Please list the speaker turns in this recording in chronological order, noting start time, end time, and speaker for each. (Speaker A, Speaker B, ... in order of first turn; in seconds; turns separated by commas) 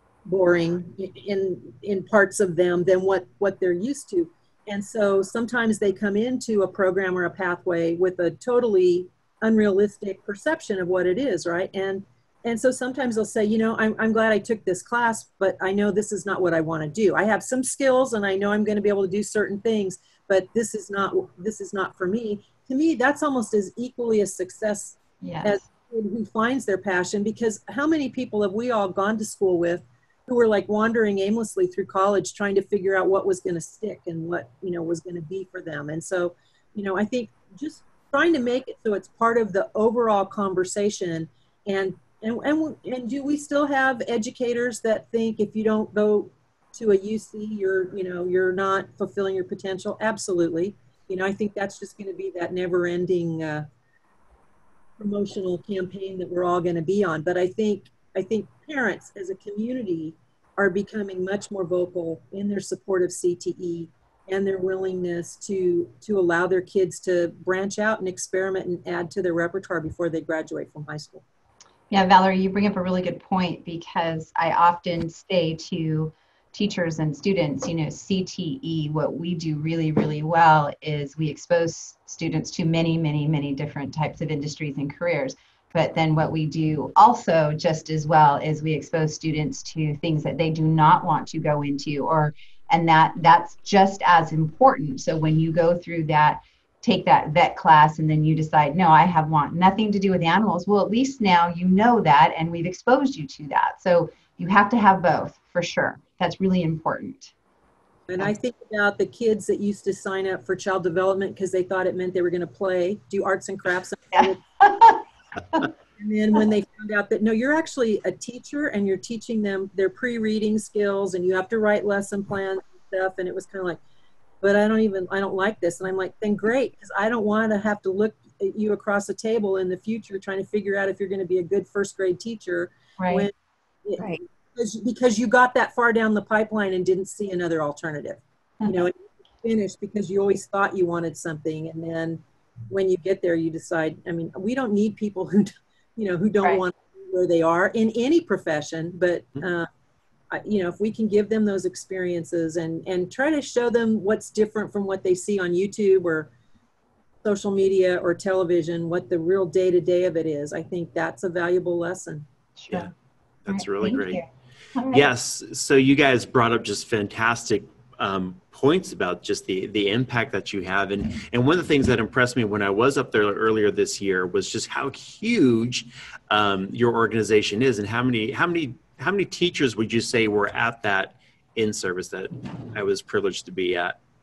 Speaker A: 0.3-53.7, Speaker B: 25.2-25.6, Speaker A: 55.0-71.2, Speaker B: 71.9-107.3, Speaker A: 108.1-114.4, Speaker B: 114.1-115.7, Speaker A: 116.0-123.8, Speaker A: 124.4-133.3, Speaker B: 133.0-133.3, Speaker A: 133.8-149.7, Speaker A: 150.3-156.3, Speaker A: 157.2-162.2, Speaker B: 162.6-162.9, Speaker C: 163.4-164.2, Speaker B: 163.5-165.1, Speaker C: 164.9-184.0